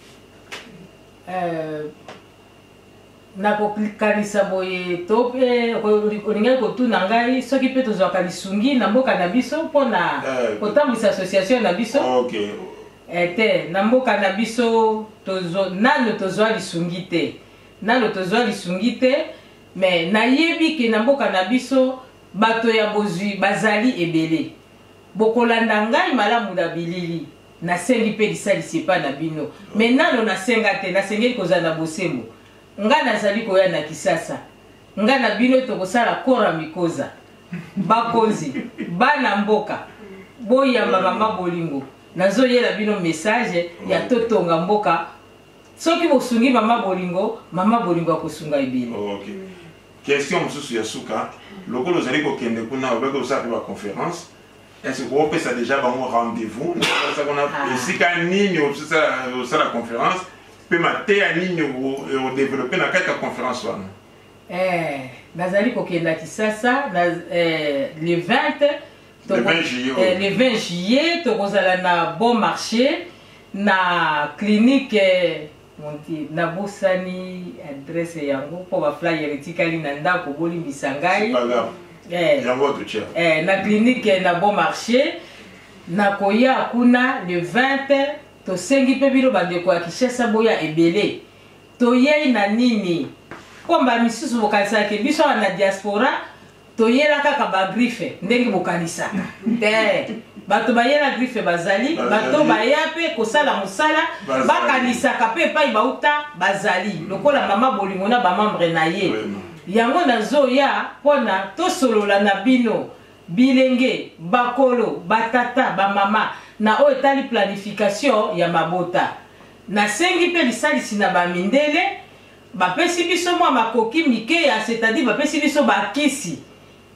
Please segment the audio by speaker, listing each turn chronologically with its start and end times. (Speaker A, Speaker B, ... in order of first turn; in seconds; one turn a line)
Speaker A: 1.3-1.9
Speaker A: 3.4-12.1
Speaker B: 10.2-10.8
Speaker B: 11.9-12.8
Speaker A: 13.1-24.5
Speaker A: 25.1-34.4
Speaker A: 35.0-37.1
Speaker A: 37.8-39.8
Speaker A: 40.4-45.0
Speaker B: 40.8-41.4
Speaker B: 43.8-44.2
Speaker A: 45.8-49.0
Speaker B: 48.9-49.5
Speaker B: 50.0-54.3
Speaker B: 54.8-63.9
Speaker A: 57.5-58.0
Speaker A: 64.5-81.4
Speaker B: 69.3-70.3
Speaker B: 81.1-81.7
Speaker A: 82.1-82.5
Speaker B: 82.4-83.1
Speaker A: 83.1-85.2
Speaker A: 85.9-91.2
Speaker A: 91.8-93.1
Speaker A: 93.7-96.2
Speaker A: 96.8-119.1
Speaker B: 101.9-102.7
Speaker B: 104.2-105.0
Speaker B: 107.0-107.3
Speaker B: 109.0-109.5
Speaker A: 119.7-122.0
Speaker A: 122.5-126.4